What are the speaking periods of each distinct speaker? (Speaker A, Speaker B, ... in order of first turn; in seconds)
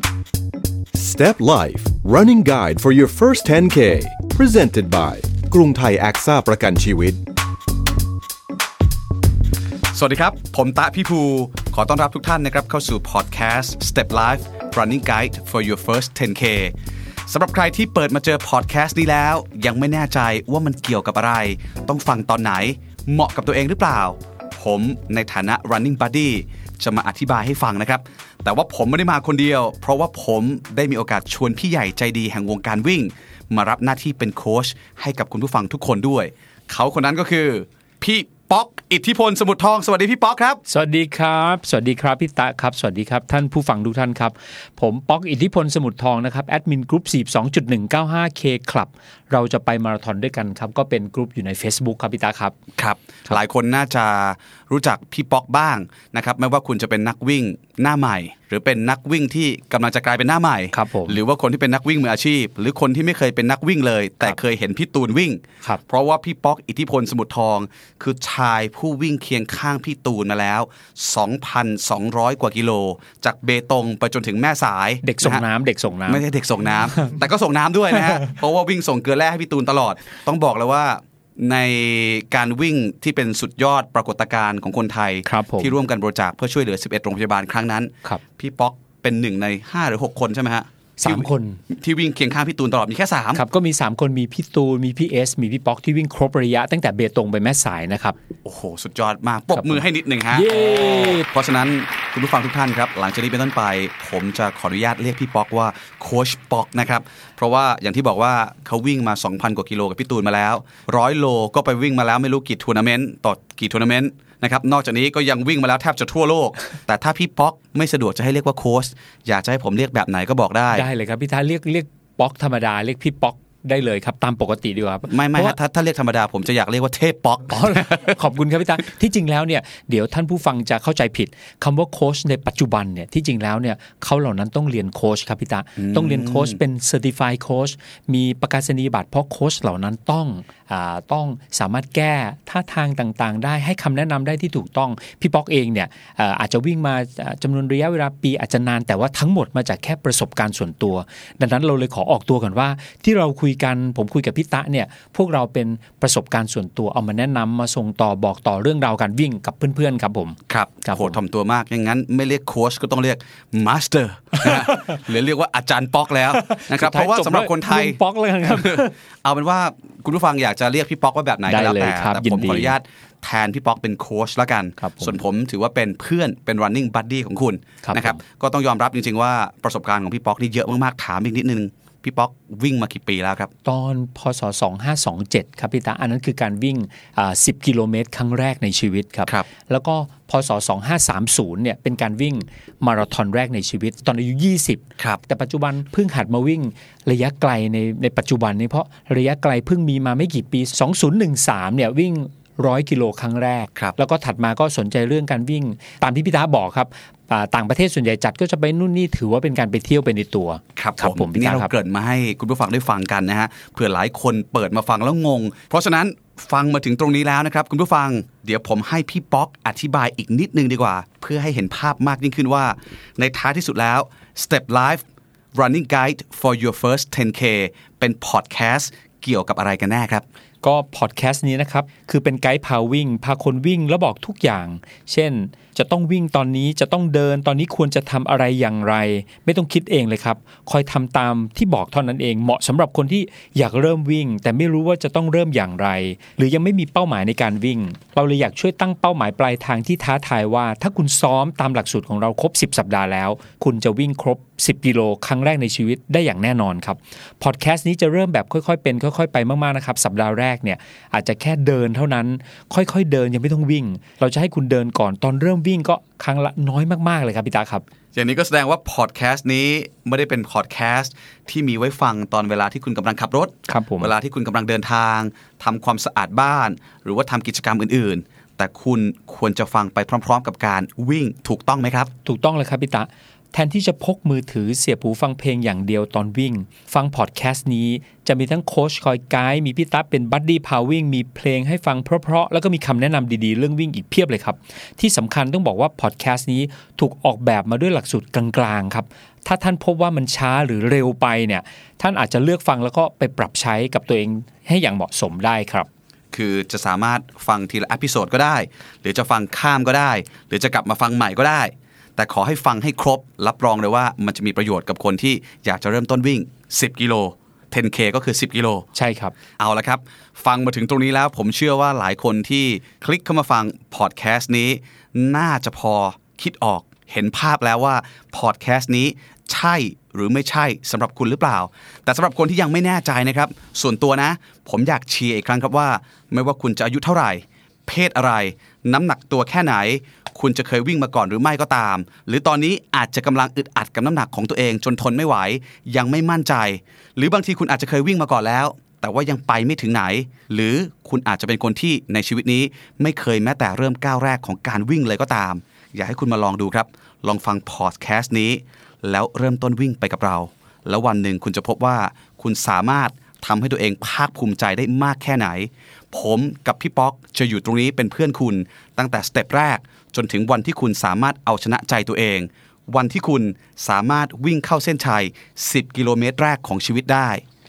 Speaker A: 0.9-7.2
Speaker B: 9.9-16.7, 17.3-40.6, 52.8-75.4, 76.1-93.4, 98.4-120.8, 125.1-128.2, 135.8-136.6, 160.5-183.5, 210.8-225.0, 225.5-230.2, 268.1-282.1, 306.3-318.9, 319.6-377.4
Speaker C: 40.7-52.5, 60.7-61.2, 75.0-76.2, 85.2-85.7, 91.0-91.6, 93.3-98.2, 99.5-101.3, 120.7-125.6, 127.5-161.2, 166.4-168.9, 171.5-172.7, 174.8-175.2, 177.8-178.2, 183.6-211.7, 230.6-267.8, 273.7-274.1, 282.2-305.9, 318.9-319.3